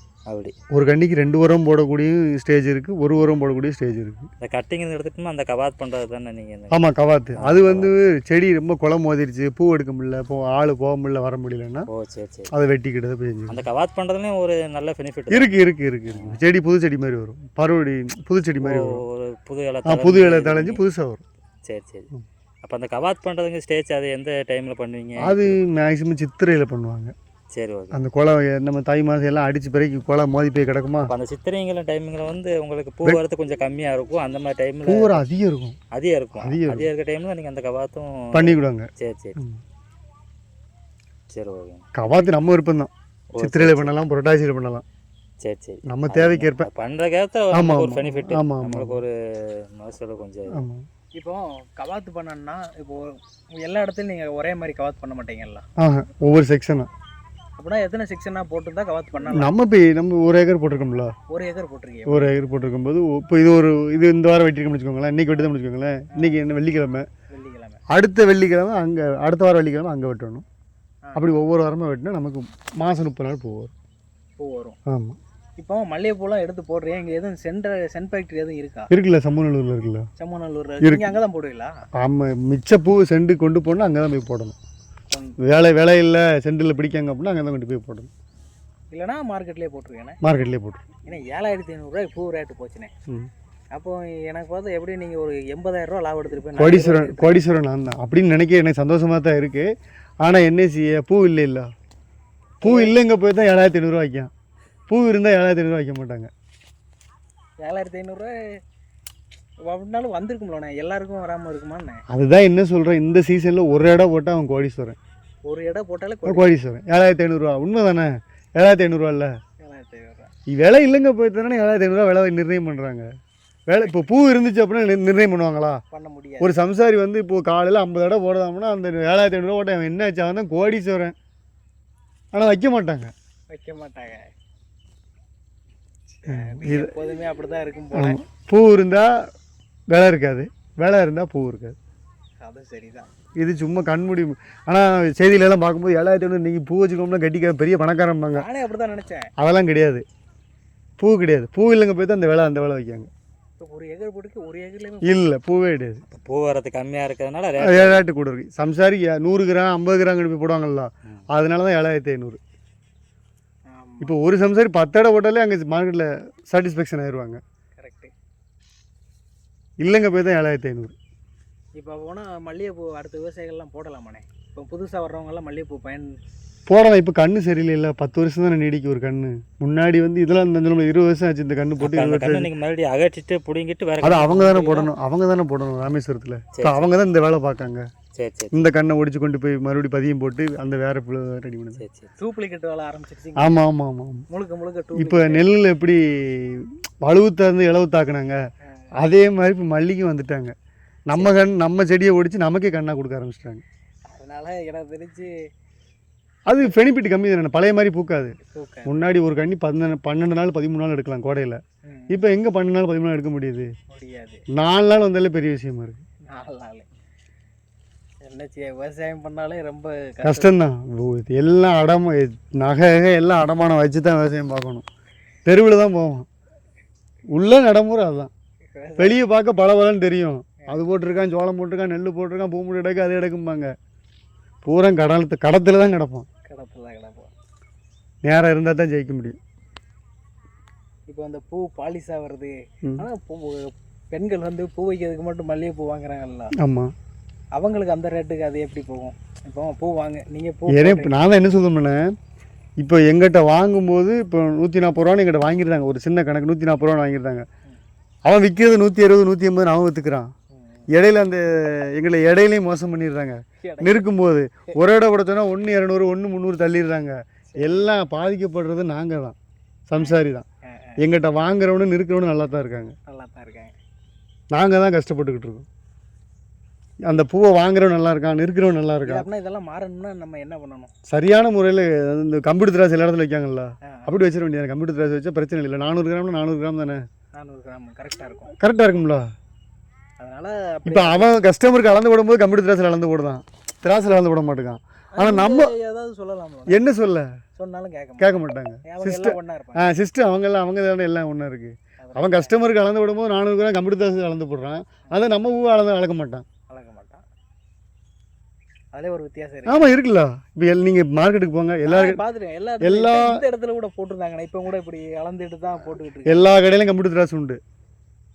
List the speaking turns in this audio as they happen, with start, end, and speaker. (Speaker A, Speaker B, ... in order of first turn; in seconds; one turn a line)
Speaker A: 0.3-0.5
Speaker B: 0.7-4.3
Speaker A: 4.4-6.8
Speaker B: 6.7-11.9
Speaker A: 7.4-7.9
Speaker A: 11.9-12.5
Speaker B: 12.5-13.6
Speaker A: 13.5-15.5
Speaker B: 15.3-19.0
Speaker A: 16.1-16.4
Speaker A: 18.6-20.8
Speaker B: 19.9-21.2
Speaker A: 21.7-22.1
Speaker A: 22.6-25.6
Speaker B: 25.2-27.1
Speaker A: 27.5-28.1
Speaker B: 27.9-31.1
Speaker A: 31.1-35.2
Speaker B: 34.8-35.8
Speaker A: 35.9-39.4
Speaker B: 36.4-36.9
Speaker B: 38.3-39.6
Speaker A: 41.3-41.9
Speaker B: 42.0-44.8
Speaker A: 43.3-43.9
Speaker A: 45.4-50.6
Speaker B: 45.9-46.7
Speaker B: 47.5-49.0
Speaker B: 50.5-50.8
Speaker C: 51.1-55.6
Speaker B: 55.8-56.9
Speaker C: 57.6-59.5
Speaker B: 59.3-61.1
Speaker C: 61.3-62.3
Speaker B: 62.1-67.0
Speaker C: 67.3-67.8
Speaker B: 67.9-70.4
Speaker C: 71.1-71.4
Speaker B: 71.2-73.7
Speaker C: 74.4-74.8
Speaker B: 74.9-75.2
Speaker C: 75.6-78.9
Speaker B: 78.9-80.1
Speaker C: 80.2-81.7
Speaker B: 80.8-81.1
Speaker B: 82.0-84.6
Speaker B: 85.4-88.1
Speaker C: 88.9-90.2
Speaker B: 90.2-90.8
Speaker C: 91.0-92.9
Speaker C: 93.7-97.4
Speaker B: 96.6-99.7
Speaker B: 100.2-101.7
Speaker C: 102.6-102.9
Speaker B: 102.6-104.3
Speaker B: 104.9-106.3
Speaker C: 107.6-108.3
Speaker C: 109.7-112.0
Speaker B: 112.1-115.0
Speaker C: 115.4-116.5
Speaker B: 116.2-119.3
Speaker C: 119.6-120.3
Speaker B: 120.5-123.0
Speaker B: 123.7-125.8
Speaker C: 125.9-126.6
Speaker B: 126.4-131.1
Speaker B: 132.3-133.1
Speaker C: 133.5-134.3
Speaker C: 136.2-138.2
Speaker B: 136.3-136.9
Speaker B: 137.9-139.1
Speaker B: 139.9-141.7
Speaker C: 142.4-143.1
Speaker B: 143.4-148.4
Speaker C: 148.3-149.3
Speaker B: 149.4-150.0
Speaker B: 151.0-153.1
Speaker C: 153.6-155.2
Speaker B: 155.0-156.0
Speaker A: 156.1-158.0
Speaker B: 157.6-162.4
Speaker C: 163.7-164.2
Speaker B: 164.0-167.4
Speaker C: 167.8-168.1
Speaker B: 169.8-170.9
Speaker C: 171.8-176.1
Speaker B: 176.7-182.5
Speaker A: 181.8-184.9
Speaker B: 184.0-187.8
Speaker A: 186.6-186.9
Speaker A: 188.2-188.7
Speaker B: 188.5-191.8
Speaker A: 191.8-192.1
Speaker C: 192.2-193.6
Speaker B: 193.4-194.2
Speaker C: 194.3-195.5
Speaker B: 194.9-198.4
Speaker B: 199.0-200.5
Speaker B: 201.1-203.6
Speaker C: 204.1-205.3
Speaker B: 206.5-213.7
Speaker C: 208.4-209.0
Speaker C: 211.8-212.2
Speaker C: 213.9-214.4
Speaker B: 214.5-216.0
Speaker C: 216.3-216.9
Speaker C: 218.2-220.5
Speaker B: 220.2-224.8
Speaker B: 225.4-226.3
Speaker B: 227.3-228.3
Speaker C: 228.7-229.2
Speaker B: 229.0-233.7
Speaker B: 234.6-236.2
Speaker C: 236.4-237.3
Speaker B: 238.2-239.4
Speaker C: 241.1-246.5
Speaker B: 246.6-246.9
Speaker C: 247.6-251.2
Speaker B: 250.7-252.1
Speaker B: 252.8-257.4
Speaker B: 258.2-260.3
Speaker C: 260.5-260.8
Speaker B: 260.9-269.4
Speaker C: 263.6-264.1
Speaker C: 267.5-267.9
Speaker B: 269.9-270.4
Speaker C: 269.9-271.0
Speaker B: 271.0-272.9
Speaker C: 273.1-273.7
Speaker B: 274.5-275.6
Speaker B: 277.1-279.2
Speaker C: 279.0-280.9
Speaker B: 281.1-287.0
Speaker C: 287.3-288.5
Speaker B: 288.6-289.3
Speaker C: 290.2-291.3
Speaker B: 290.9-295.7
Speaker C: 295.1-296.8
Speaker B: 296.7-297.3
Speaker C: 297.6-300.0
Speaker B: 298.2-306.4
Speaker C: 302.0-302.5
Speaker C: 306.7-307.2
Speaker C: 308.9-309.9
Speaker B: 309.6-312.2
Speaker C: 311.9-316.5
Speaker B: 312.8-313.4
Speaker B: 316.2-317.6